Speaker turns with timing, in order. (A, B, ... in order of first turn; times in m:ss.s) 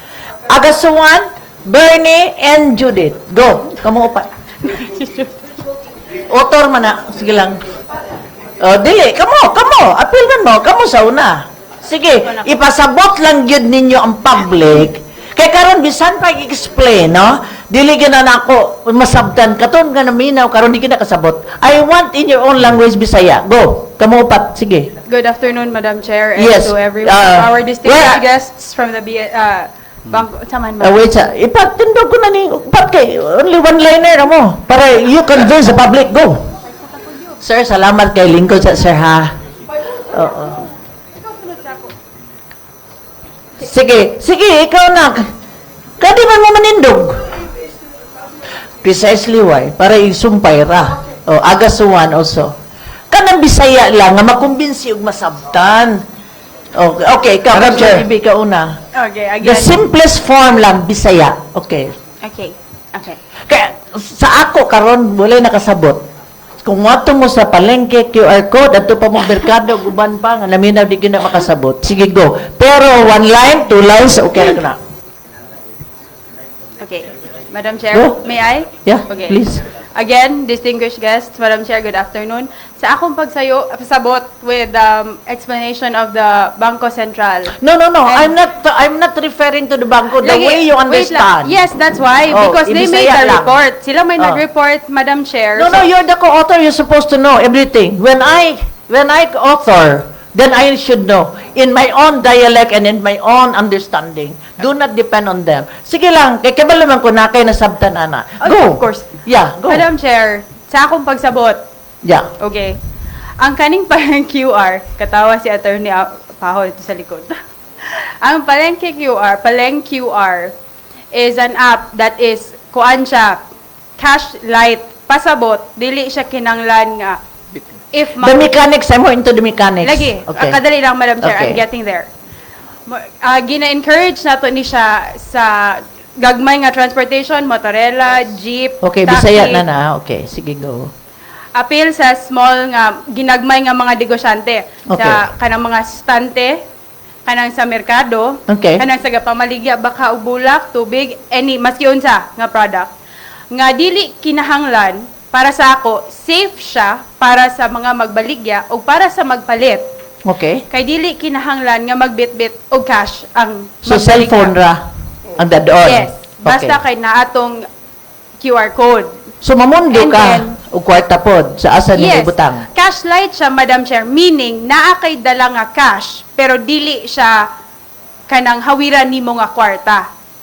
0:00.5-0:04.3 A
0:04.6-0:05.4 B
0:06.3-0:07.6 A
0:08.6-0:24.9 A
0:12.3-0:12.5 B
0:25.1-0:31.0 B
0:26.4-0:28.2 A
0:30.8-0:36.4 A
0:37.4-0:39.3 A
0:40.1-0:40.7 A
0:41.2-0:41.9 B
0:43.6-0:45.3 A
0:46.0-0:47.2 A
0:48.8-0:52.6 A
0:53.1-0:56.0 A
0:56.8-0:58.8 A
0:57.6-0:58.0 B
0:58.9-0:59.8 B
0:59.4-1:01.9 A
1:02.2-1:03.2 B
1:03.5-1:06.0 A
1:06.6-1:14.8 A
1:16.8-1:28.3 B
1:18.8-1:19.6 A
1:27.6-1:31.6 A
1:30.2-1:35.9 B
1:32.3-1:33.6 A
1:35.6-1:49.9 A
1:48.4-1:51.6 B
1:52.4-1:52.8 B
1:53.4-2:00.5 B
2:01.1-2:03.4 B
2:04.0-2:07.2 B
2:07.9-2:08.7 B
2:08.2-2:10.6 A
2:09.8-2:12.1 B
2:11.2-2:11.6 A
2:12.9-2:19.6 B
2:18.8-2:20.9 A
2:21.6-2:26.6 B
2:24.9-2:25.2 A
2:27.3-2:32.9 B
2:28.5-2:28.8 A
2:33.5-2:39.9 B
2:40.3-2:40.6 A
2:40.7-2:44.5 B
2:43.8-2:44.8 A
2:45.4-2:46.8 A
2:45.8-2:47.7 B
2:48.4-2:49.1 B
2:49.4-2:52.7 A
2:49.9-2:50.6 B
2:52.0-2:57.5 B
2:58.3-3:00.1 B